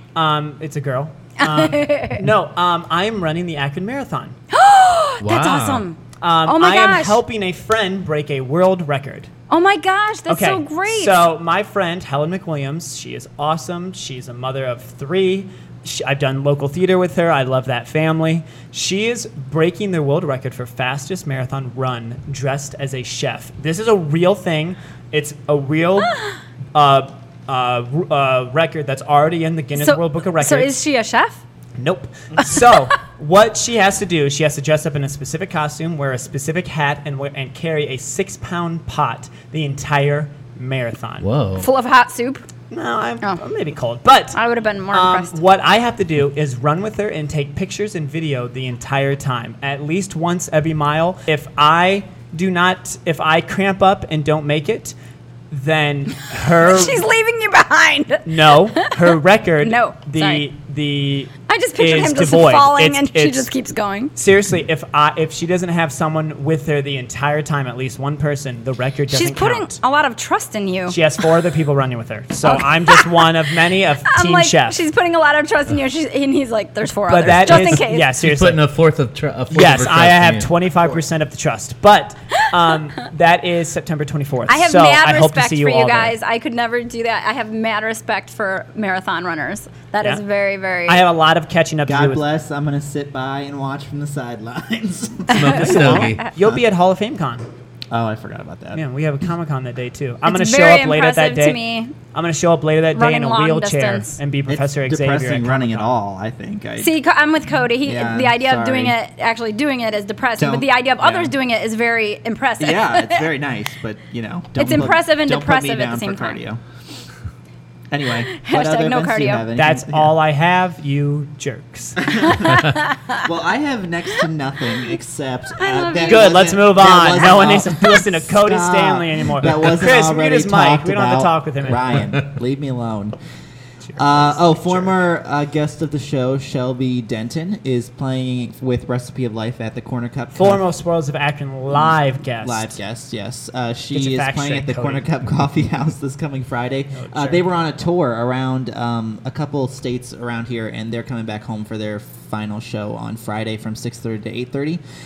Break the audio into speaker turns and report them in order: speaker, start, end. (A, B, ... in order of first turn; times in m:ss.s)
0:00.2-0:04.4 A
0:01.4-0:02.2 B
0:04.5-0:07.2 B
0:05.2-0:05.8 C
0:06.2-0:09.3 A
0:09.5-0:11.3 B
0:10.3-0:26.2 A
0:26.8-0:30.8 A
0:29.8-0:31.4 B
0:31.8-0:41.3 A
0:41.2-0:41.7 C
0:41.6-0:42.5 B
0:42.7-0:44.4 A
0:44.3-0:45.4 B
0:44.9-0:54.9 A
0:55.5-0:57.0 A
0:56.6-1:00.5 B
0:58.3-1:03.5 A
1:01.5-1:04.1 B
1:04.2-1:09.8 A
1:09.1-1:11.0 B
1:10.9-1:14.8 A
1:12.4-1:13.3 B
1:14.1-1:18.1 B
1:17.1-1:18.6 A
1:17.2-1:20.5 C
1:19.5-1:26.1 A
1:24.5-1:31.0 B
1:30.9-1:32.2 A
1:31.9-1:35.4 D
1:35.3-1:36.2 C
1:35.3-1:36.3 B
1:35.4-1:37.5 A
1:37.9-1:38.8 D
1:38.7-1:46.0 A
1:40.2-1:42.0 B
1:42.9-1:44.2 B
1:44.5-1:47.0 D
1:46.8-1:53.2 B
1:47.8-1:49.0 D
1:50.4-1:51.3 D
1:52.6-1:56.6 D
1:54.5-1:56.4 B
1:57.9-2:00.2 D
1:58.3-1:59.5 B
1:59.6-2:02.1 A
2:02.0-2:13.2 D
2:02.2-2:03.2 B
2:05.6-2:06.3 B
2:06.0-2:12.2 A
2:13.8-2:15.0 A
2:14.0-2:20.7 D
2:20.3-2:22.8 A
2:21.7-2:34.8 D
2:23.9-2:25.1 A
2:26.9-2:27.4 A